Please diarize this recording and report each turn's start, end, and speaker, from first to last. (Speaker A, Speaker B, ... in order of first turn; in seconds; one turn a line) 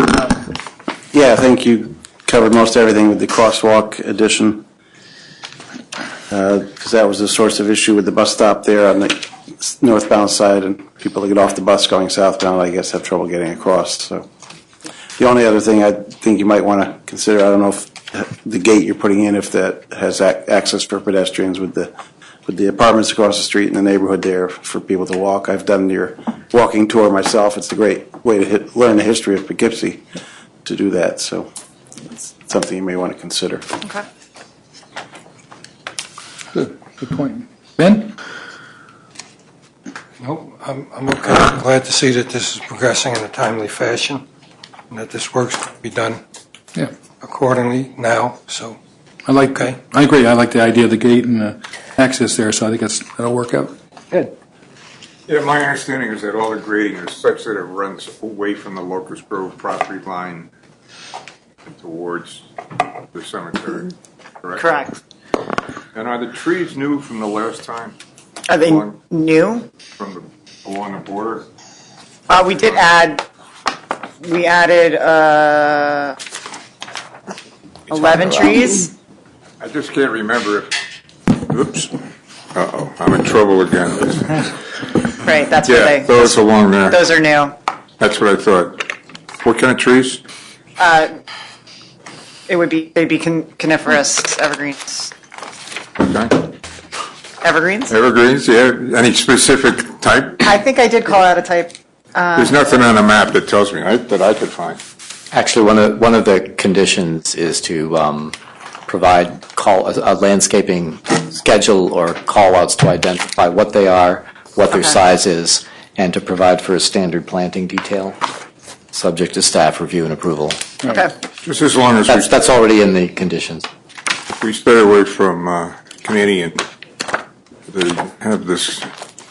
Speaker A: 1.1-4.6
Speaker A: 6.3-14.3
Speaker A: 15.2-21.9
Speaker A: 22.4-30.1
Speaker A: 30.6-31.5
Speaker A: 32.0-33.6
Speaker B: 36.5-38.1
Speaker C: 40.2-44.2
Speaker C: 44.9-46.2
Speaker C: 47.2-48.8
Speaker B: 49.2-54.3
Speaker D: 55.3-60.5
Speaker D: 61.6-62.5
Speaker D: 63.1-64.7
Speaker E: 64.5-65.0
Speaker D: 65.9-68.0
Speaker E: 68.5-69.7
Speaker D: 68.6-68.9
Speaker D: 70.0-71.5
Speaker E: 72.3-73.2
Speaker E: 74.2-76.2
Speaker E: 77.9-78.9
Speaker D: 79.6-80.8
Speaker D: 81.3-81.9
Speaker D: 82.5-84.5
Speaker E: 85.2-87.5
Speaker D: 85.6-87.0
Speaker D: 88.0-90.2
Speaker E: 90.8-91.1
Speaker E: 92.5-95.1
Speaker D: 96.0-96.5
Speaker E: 97.4-97.9
Speaker D: 97.9-100.5
Speaker E: 100.4-102.8
Speaker D: 102.3-104.8
Speaker F: 105.3-108.3
Speaker F: 108.9-118.2
Speaker F: 118.9-120.7
Speaker E: 120.8-121.1
Speaker D: 121.4-122.3
Speaker F: 122.1-123.7
Speaker D: 124.4-126.6
Speaker D: 127.7-128.9